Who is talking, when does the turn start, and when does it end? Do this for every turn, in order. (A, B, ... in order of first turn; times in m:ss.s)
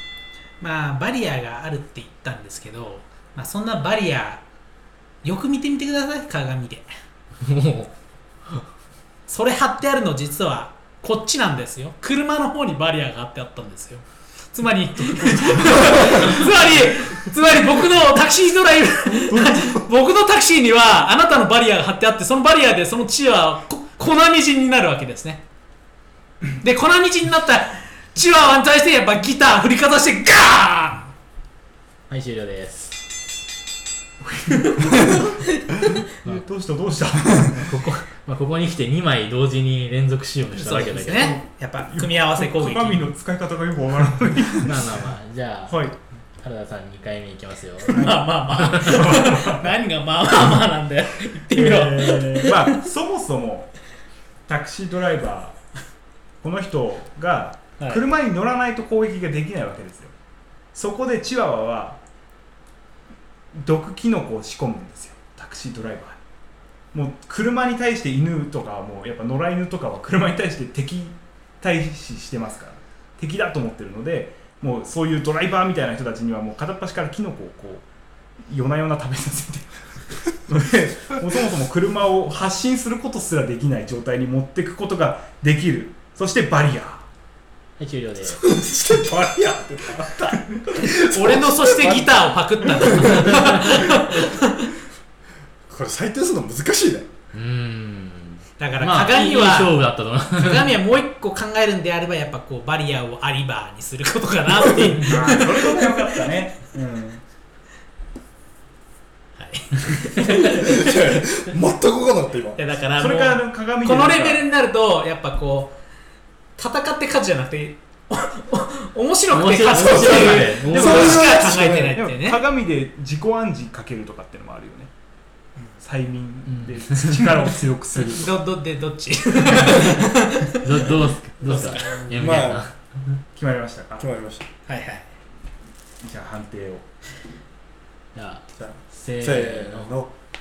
0:00.6-0:04.4 A
0:05.2-0:06.9 A
0:07.4-0:07.9 B
0:09.3-0:25.4 A
0:15.2-0:16.0 C
0:19.3-0:19.8 C
0:26.6-0:31.1 A
0:32.1-0:33.0 B
0:34.2-0:35.4 C
0:34.8-0:36.0 A
0:36.2-0:37.7 C
0:37.4-0:41.4 B
0:40.6-0:43.1 A
0:40.9-0:45.0 C
0:44.6-0:45.8 B
0:45.7-0:46.0 C
0:46.4-0:48.2 B
0:47.8-0:52.7 A
0:47.9-0:49.7 C
0:51.5-0:53.7 C
0:54.5-0:55.6 C
0:56.4-1:00.1 C
1:00.7-1:02.0 C
1:03.5-1:06.2 C
1:06.9-1:17.8 C
1:18.5-1:19.8 C
1:20.3-1:27.0 C
1:27.8-1:28.4 B
1:28.3-1:34.3 D
1:28.9-1:30.9 C
1:30.9-1:34.7 A
1:35.7-1:37.1 D
1:37.3-1:40.7 B
1:38.6-1:39.8 A
1:40.3-1:46.2 A
1:44.6-1:45.0 D
1:45.0-1:47.2 C
1:49.4-1:51.2 A
1:50.2-1:52.6 D
1:52.6-1:55.8 A
1:52.9-1:54.4 C
1:56.6-2:02.4 A
1:59.3-2:01.4 B
1:59.7-2:02.0 D
2:00.7-2:04.9 C
2:05.8-2:08.4 C
2:06.5-2:07.5 B
2:08.1-2:12.1 A
2:09.7-2:09.9 B
2:10.6-2:13.2 B
2:12.1-2:12.6 D
2:13.4-2:14.0 C
2:14.0-2:14.4 D
2:14.6-2:15.1 A
2:16.0-2:16.8 C
2:18.1-2:19.9 B
2:18.6-2:20.1 D